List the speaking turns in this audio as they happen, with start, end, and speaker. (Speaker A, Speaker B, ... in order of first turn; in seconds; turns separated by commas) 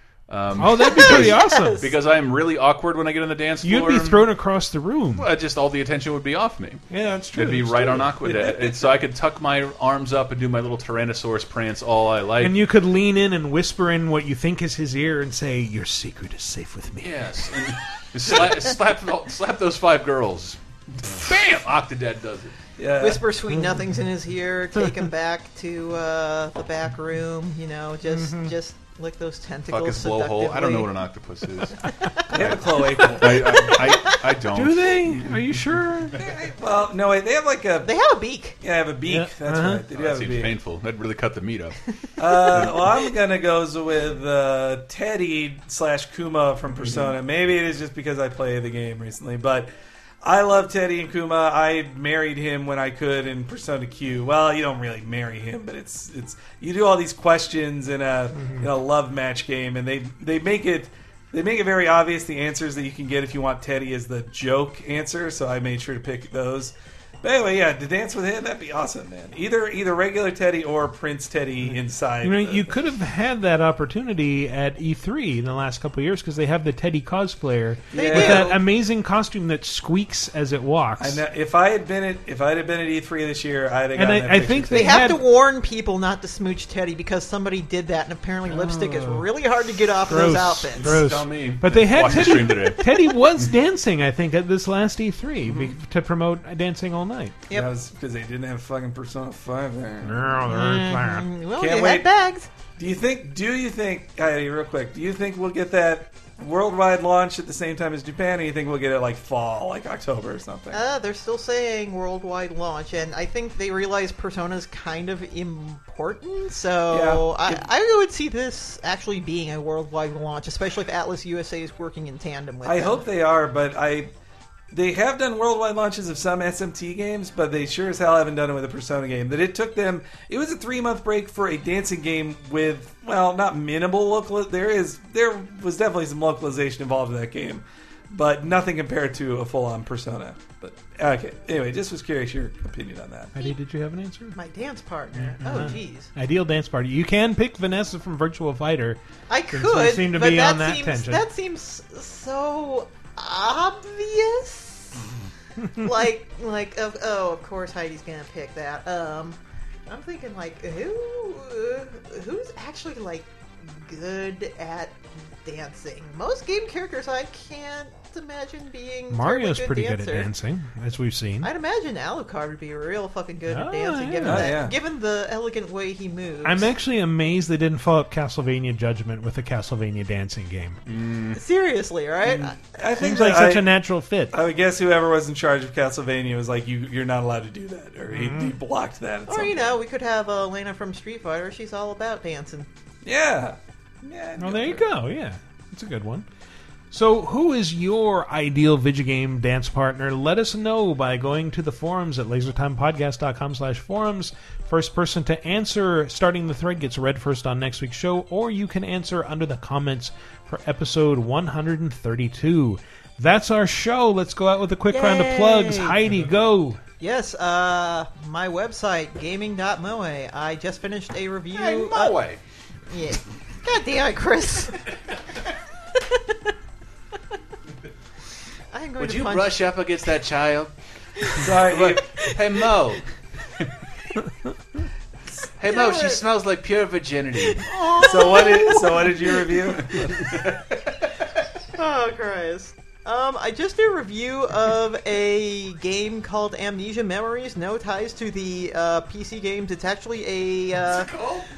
Speaker A: 0.3-4.2, Speaker B: 0.6-1.9, Speaker C: 0.8-1.9, Speaker B: 3.6-5.3, Speaker A: 5.2-6.8, Speaker B: 6.9-8.0, Speaker A: 7.3-12.6, Speaker D: 7.7-8.9, Speaker B: 12.4-17.1, Speaker A: 17.0-22.6, Speaker D: 22.8-23.2, Speaker C: 23.0-30.9, Speaker B: 23.5-23.8, Speaker B: 28.1-28.5, Speaker A: 29.7-36.4, Speaker C: 31.9-32.2, Speaker D: 32.3-33.8, Speaker C: 33.0-34.2, Speaker B: 34.5-36.2, Speaker D: 36.2-37.9, Speaker C: 37.8-38.6, Speaker D: 38.6-40.5, Speaker B: 39.1-39.8, Speaker A: 39.9-41.8, Speaker D: 42.2-49.7, Speaker C: 42.4-42.8, Speaker A: 42.5-42.9, Speaker D: 50.2-72.7, Speaker B: 58.3-58.7, Speaker B: 72.2-81.2, Speaker D: 77.9-78.6, Speaker C: 77.9-78.6, Speaker D: 81.0-85.0, Speaker B: 84.0-85.2, Speaker C: 84.7-91.0, Speaker B: 88.5-89.2, Speaker B: 90.0-97.3, Speaker A: 90.7-93.5, Speaker D: 95.4-95.7, Speaker D: 97.5-100.1, Speaker B: 100.0-101.3, Speaker C: 100.5-102.5, Speaker D: 101.6-102.1, Speaker D: 102.8-110.8, Speaker C: 110.7-123.0, Speaker D: 116.9-117.7, Speaker D: 122.6-124.1, Speaker D: 124.7-143.3, Speaker B: 143.3-144.4, Speaker C: 144.3-146.1, Speaker B: 145.1-149.0, Speaker C: 149.3-155.1, Speaker B: 149.5-151.2, Speaker C: 155.7-170.3, Speaker B: 169.1-171.5, Speaker C: 171.4-176.7, Speaker B: 173.5-174.5, Speaker D: 174.2-174.8, Speaker B: 176.4-180.8, Speaker A: 180.8-181.4, Speaker C: 181.3-183.2, Speaker D: 182.2-183.7, Speaker B: 183.0-184.3, Speaker D: 184.3-189.7, Speaker B: 188.1-188.5, Speaker C: 189.3-192.7, Speaker D: 193.0-194.9, Speaker B: 194.4-196.2, Speaker B: 196.9-216.8, Speaker C: 214.9-216.0, Speaker C: 217.0-222.2, Speaker A: 221.5-222.4, Speaker C: 222.9-224.9, Speaker C: 225.9-226.3, Speaker C: 228.7-229.7, Speaker A: 229.0-230.7, Speaker D: 231.4-232.3, Speaker A: 231.4-233.8, Speaker A: 235.6-237.7, Speaker C: 235.6-236.2, Speaker C: 237.4-239.9, Speaker D: 238.0-240.2, Speaker A: 239.9-241.2, Speaker C: 241.7-251.1, Speaker A: 250.8-251.5